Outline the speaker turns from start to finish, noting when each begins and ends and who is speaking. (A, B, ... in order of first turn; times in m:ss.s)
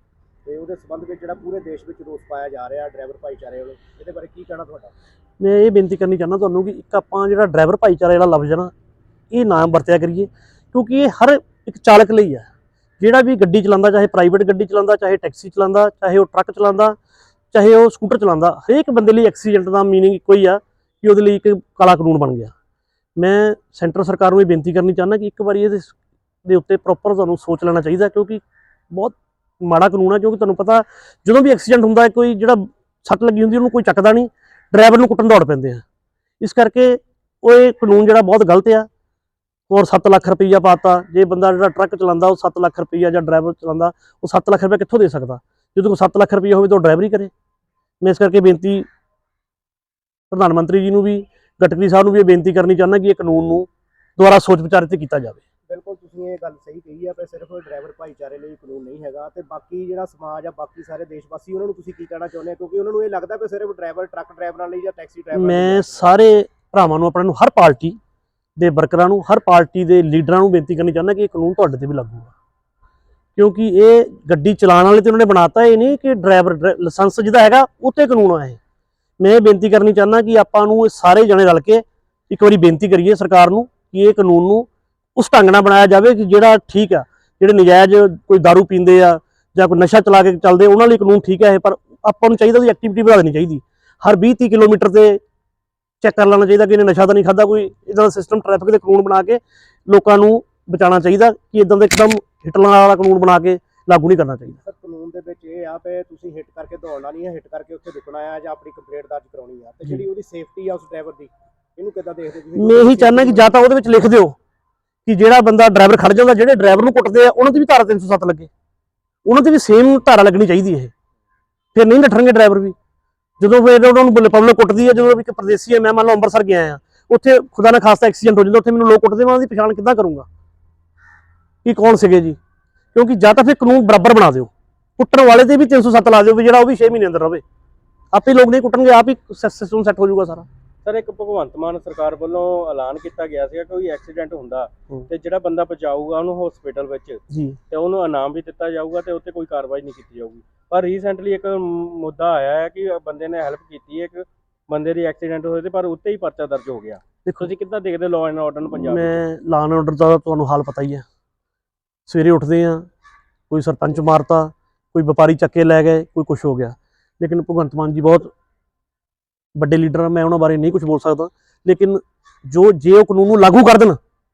0:00.4-0:04.9 A
0:05.4-0:08.7 B
0:09.3-0:12.5 B
0:13.0-0:17.0 B
0:17.5-0:22.5 B
0:23.2-0:35.8 B
0:36.4-0:38.9 B
0:39.7-0:47.3 B
0:48.0-0:48.8 B
0:50.3-0:55.4 B
0:55.7-1:06.1 A
1:05.3-1:08.0 B
1:08.6-1:12.3 B
1:13.4-1:18.6 B
1:19.2-1:35.2 B
1:36.0-1:44.6 B
1:44.5-1:53.5 A
1:52.6-1:54.4 B
1:55.0-1:58.5 B
1:59.2-2:00.9 B
2:01.7-2:02.8 B
2:03.4-2:10.3 B
2:11.6-2:12.4 B
2:12.9-2:17.4 B
2:18.1-2:20.4 B
2:20.8-2:39.2 C
2:27.3-2:27.6 B
2:38.7-2:41.0 B
2:42.1-2:42.8 B
2:43.5-2:48.3 B
2:49.6-2:54.0 B